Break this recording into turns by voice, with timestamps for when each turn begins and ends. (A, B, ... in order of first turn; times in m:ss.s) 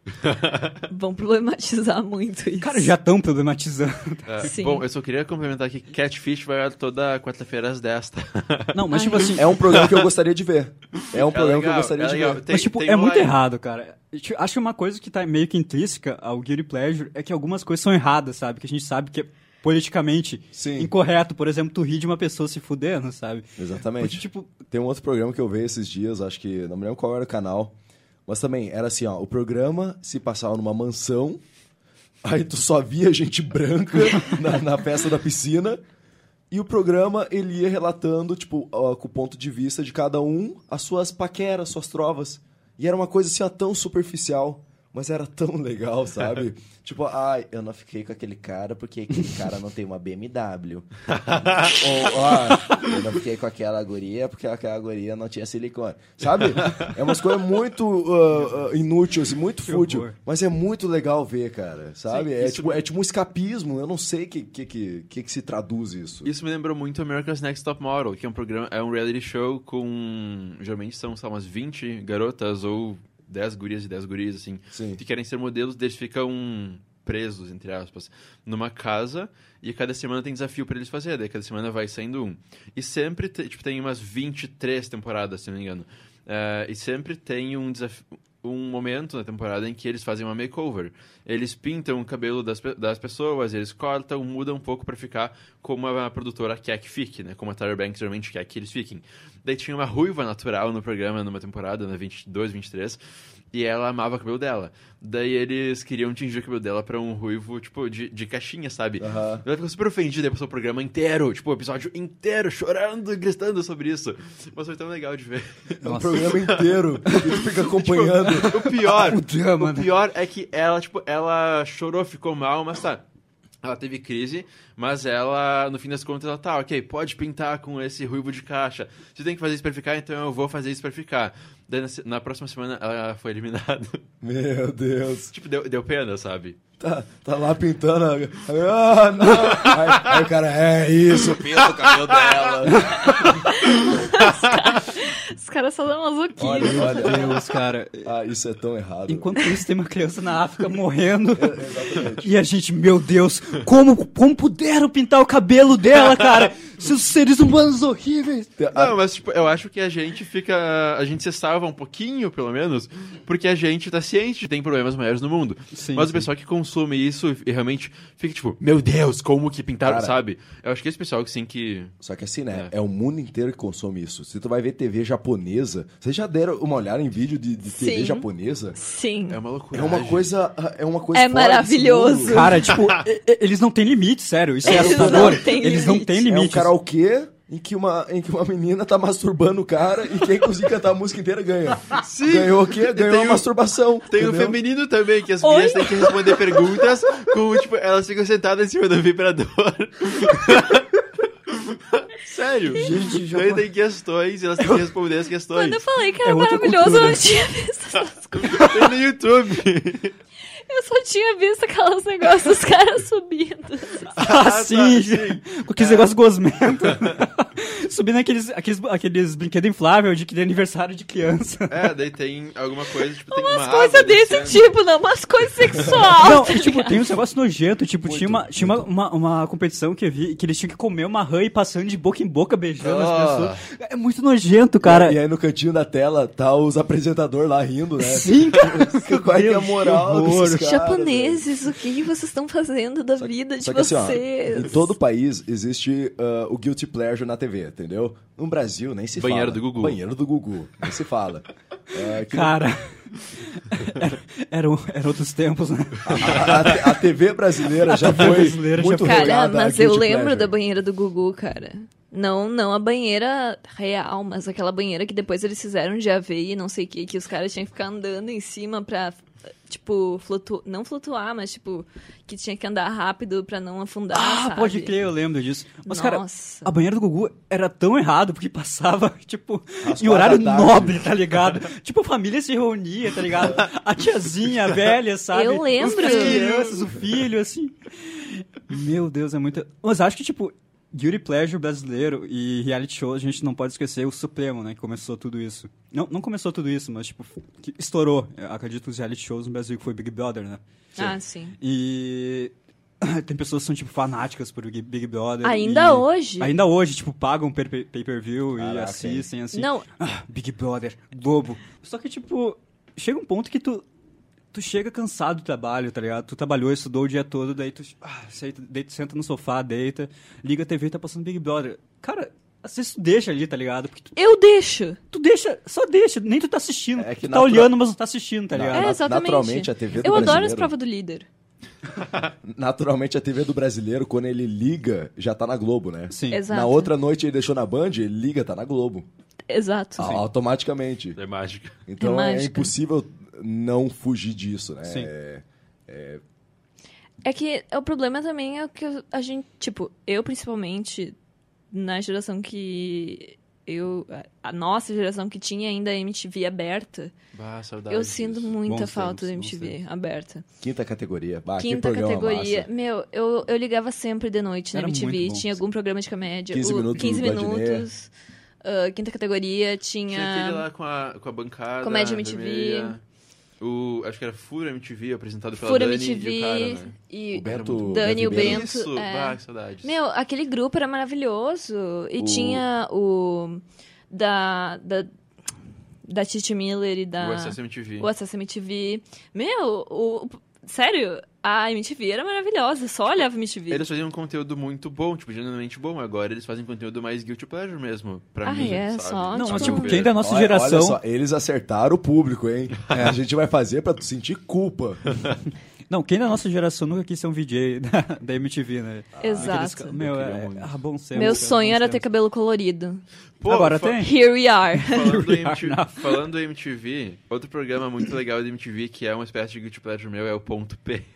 0:00.2-0:00.7 A
0:00.9-0:02.9 B
0:02.6-0:04.5 C
0:04.3-0:08.8 A
0:04.4-0:04.8 B
0:08.7-0:09.5 C
0:08.9-0:09.4 B
0:09.4-0:12.4 D
0:09.6-0:10.1 A
0:11.0-0:13.4 A
0:12.5-0:24.5 C
0:20.5-0:20.9 D
0:23.6-0:27.7 D
0:28.3-0:31.4 D
0:32.2-0:35.8 D
0:36.5-1:06.3 D
0:51.1-0:51.8 A
0:56.4-0:56.9 A
0:59.6-1:00.2 C
1:02.1-1:02.8 A
1:06.2-1:43.0 A
1:14.7-1:15.0 D
1:43.5-2:03.0 A
1:49.0-1:49.4 D
1:55.8-1:56.2 C
1:55.8-1:58.6 D
1:57.0-1:57.3 C
1:58.2-1:59.9 C
2:03.6-2:14.0 A
2:14.2-2:15.3 D
2:15.3-2:16.6 A
2:16.8-2:23.5 D
2:19.3-2:20.2 A
2:21.2-2:24.7 A
2:22.7-2:23.3 C
2:23.3-2:27.4 B
2:26.4-2:27.4 D
2:26.5-2:28.1 C
2:28.0-2:29.4 D
2:29.1-2:38.5 C
2:31.4-2:32.3 D
2:38.6-2:39.0 D
2:38.7-2:51.9 A
2:45.7-2:46.3 C
2:49.8-2:50.2 D
2:52.0-2:58.8 D
2:57.7-2:59.4 B
2:59.3-3:00.3 A
2:59.7-3:02.6 D
3:01.1-3:02.8 B
3:02.2-3:06.7 C
3:02.7-3:03.0 A
3:04.6-3:05.5 D
3:04.6-3:06.3 B
3:06.2-3:14.6 D
3:11.9-3:13.5 A
3:14.0-3:21.0 A
3:15.4-3:16.9 B
3:21.5-3:25.8 A
3:22.8-3:23.6 C
3:25.5-3:28.9 B
3:26.2-3:27.2 C
3:28.4-3:30.1 A
3:30.5-3:34.1 B
3:34.1-3:36.1 A
3:34.2-3:41.9 C
3:36.8-3:37.2 A
3:41.7-3:44.7 A
3:43.3-3:47.0 B
3:46.2-3:55.2 C
3:48.0-3:48.8 D
3:52.8-3:53.6 A
3:54.8-4:01.5 D
3:58.0-4:00.7 C
4:00.5-4:04.9 B
4:03.2-4:12.6 D
4:09.2-4:10.0 A
4:12.3-4:16.8 C
4:16.0-4:20.5 D
4:16.2-4:16.8 A
4:17.8-4:19.4 C
4:18.9-4:35.0 B
4:34.1-5:00.6 C
4:35.9-4:36.7 B
4:39.8-4:41.1 D
4:45.3-4:46.4 B
4:45.8-4:47.0 A
5:01.0-5:01.6 B
5:01.6-5:13.8 C
5:05.4-5:06.5 B
5:08.6-5:09.3 D
5:09.5-5:09.9 B
5:14.5-5:24.1 C
5:24.2-5:25.0 B
5:25.1-5:29.0 C
5:27.0-5:27.7 D
5:28.5-5:30.7 D
5:28.7-5:31.3 B
5:30.0-5:30.4 C
5:32.4-5:39.1 D
5:36.1-5:36.4 C
5:36.3-5:36.9 B
5:39.5-5:40.1 B
5:40.0-5:41.2 D
5:41.2-5:41.8 A
5:41.9-5:46.2 D
5:42.0-5:42.7 B
5:44.8-5:45.1 C
5:47.2-5:51.1 B
5:51.7-5:57.1 B
5:57.3-5:58.6 A
5:57.9-6:00.4 B
5:58.7-5:59.7 C
6:00.6-6:02.7 D
6:01.6-6:08.1 B
6:04.7-6:05.6 C
6:06.5-6:07.9 D
6:08.6-6:10.6 B
6:10.1-6:13.0 A
6:11.8-6:13.0 B
6:13.6-6:20.0 A
6:15.6-6:25.1 B
6:17.3-6:18.7 D
6:22.2-6:22.6 D
6:26.0-6:33.8 B
6:27.2-6:28.1 A
6:33.7-6:40.2 A
6:38.4-6:40.0 B
6:39.3-6:41.0 C
6:40.2-6:45.2 D
6:42.9-6:43.2 C
6:45.9-6:52.0 C
6:49.2-6:49.5 D
6:49.2-6:50.0 B
6:50.0-6:51.4 A
6:51.1-6:53.0 B
6:53.4-6:54.1 A
6:53.4-6:54.1 C
6:53.9-6:55.2 B
6:54.8-7:01.0 A
6:54.9-6:56.1 C